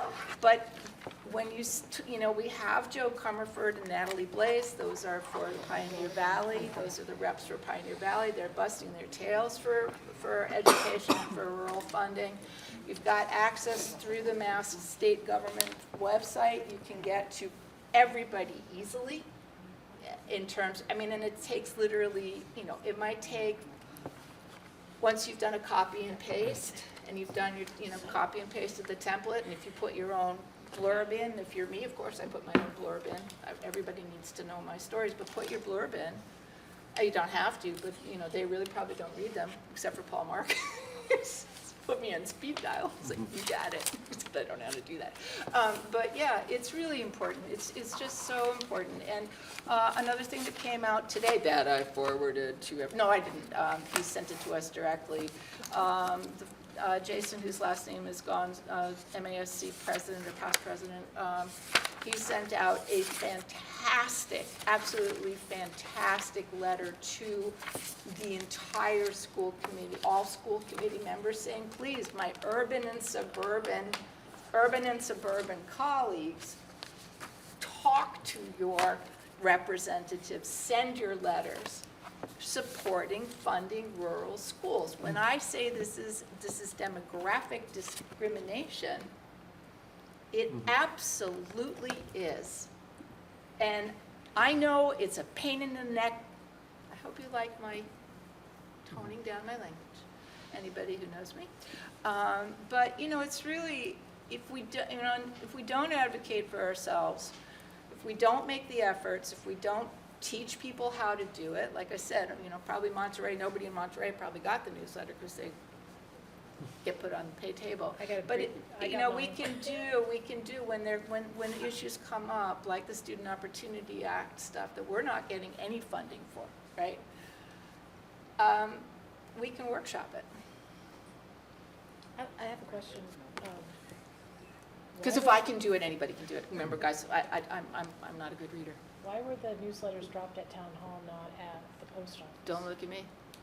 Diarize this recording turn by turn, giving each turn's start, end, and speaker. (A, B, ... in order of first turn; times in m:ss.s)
0:00.4-0:19.3 A
0:20.0-0:23.7 A
0:25.0-0:36.2 A
0:36.9-1:07.5 A
1:08.0-1:14.0 A
1:14.5-1:16.6 A
1:17.6-1:21.8 A
1:22.4-1:29.1 A
1:30.3-1:32.7 A
1:33.6-1:36.3 A
1:36.9-1:37.9 A
1:38.8-1:41.5 A
1:42.0-1:47.3 A
1:47.9-1:55.5 A
1:56.8-2:07.0 A
1:58.0-1:59.9 B
2:08.4-2:10.3 A
2:12.2-2:13.7 B
2:14.9-2:15.4 B
2:15.0-2:18.8 A
2:19.0-2:22.5 B
2:22.4-2:23.1 A